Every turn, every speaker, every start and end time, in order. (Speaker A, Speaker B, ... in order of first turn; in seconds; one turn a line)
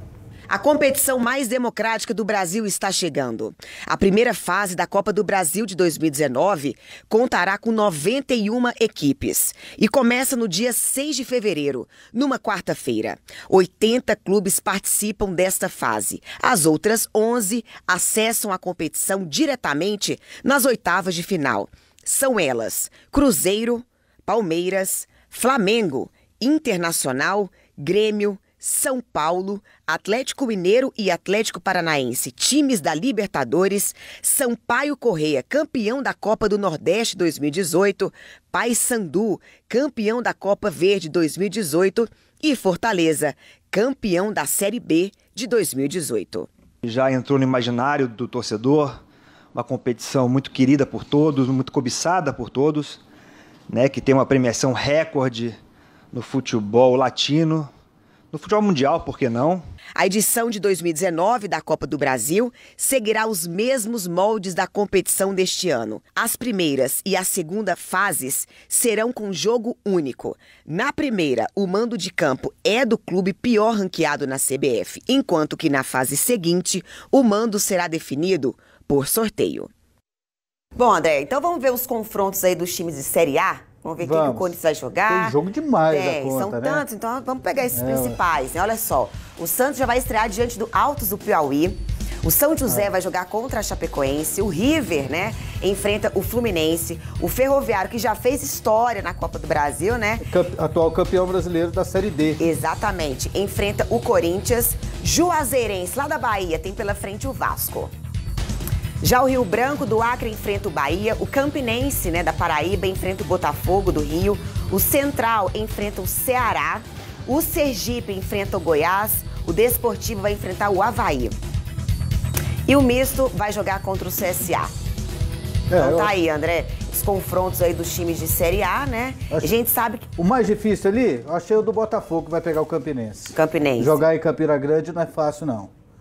Speaker A: 0.5-46.5
Speaker B: 46.8-48.9
Speaker B: 49.5-53.0
Speaker B: 53.7-55.6
Speaker B: 56.1-57.7
Speaker B: 58.3-59.6
Speaker A: 60.0-79.7
Speaker A: 80.8-85.3
Speaker C: 84.0-84.5
Speaker C: 85.1-86.8
Speaker A: 85.9-100.2
Speaker C: 87.7-88.2
Speaker C: 100.2-102.4
Speaker A: 102.4-107.9
Speaker A: 109.0-121.4
Speaker A: 122.7-124.7
Speaker C: 125.7-126.1
Speaker A: 125.8-130.1
Speaker C: 130.2-135.7
Speaker A: 133.3-134.0